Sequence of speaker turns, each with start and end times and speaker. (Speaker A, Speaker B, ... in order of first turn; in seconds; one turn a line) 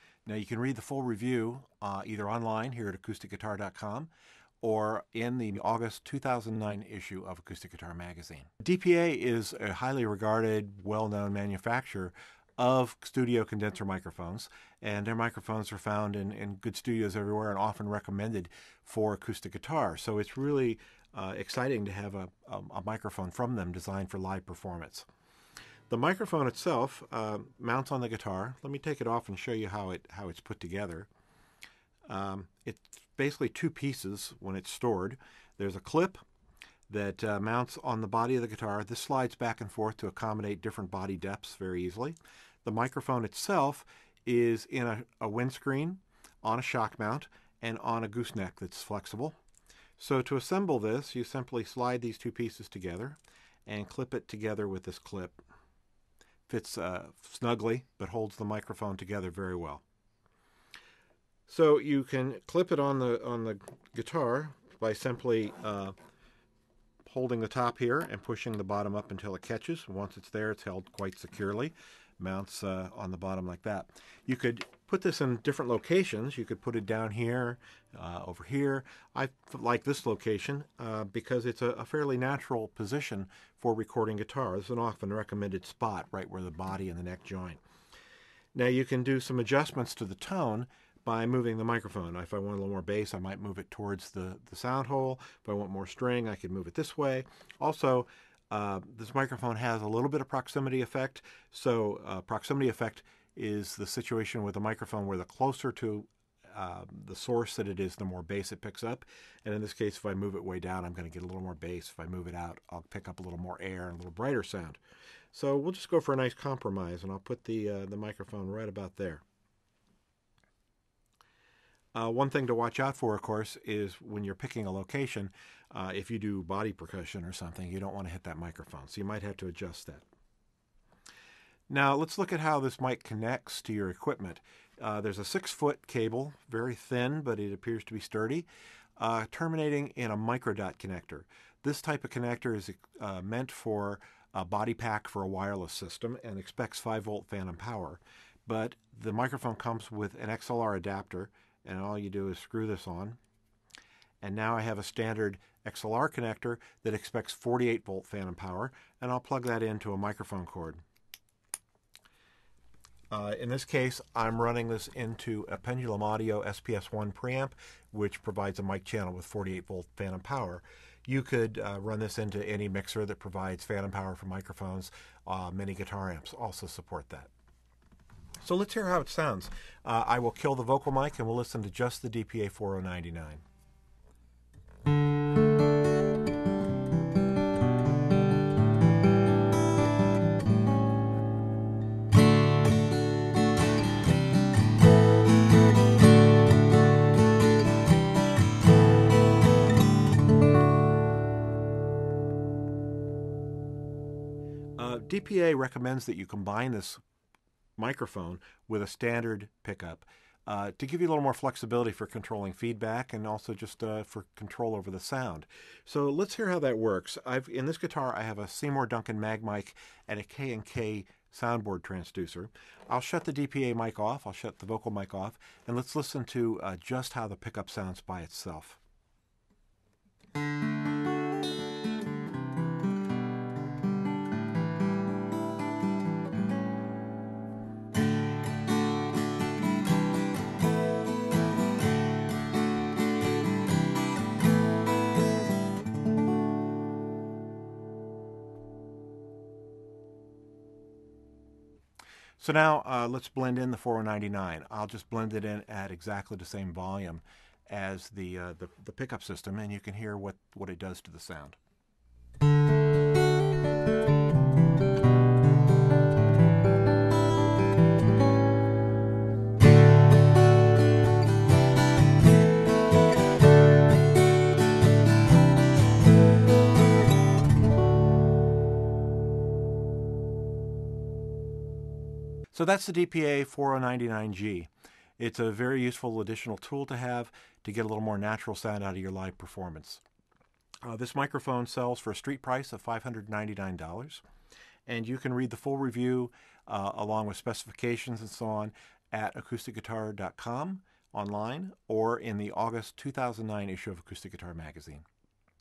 Speaker A: 0.2-4.1
Speaker A: 4.6-25.1
Speaker A: 25.9-31.1
Speaker A: 32.1-36.2
Speaker A: 36.9-49.4
Speaker A: 50.0-55.4
Speaker A: 56.5-59.8
Speaker A: 61.5-65.9
Speaker A: 67.0-87.6
Speaker A: 88.5-114.8
Speaker A: 115.3-119.2
Speaker A: 121.9-130.0
Speaker A: 131.7-153.2
Speaker A: 154.2-160.8
Speaker A: 163.1-177.3
Speaker A: 178.4-183.4
Speaker A: 204.8-207.0
Speaker A: 207.8-228.8
Speaker A: 252.4-261.6
Speaker A: 282.5-290.0
Speaker A: 290.8-294.2
Speaker A: 294.9-305.0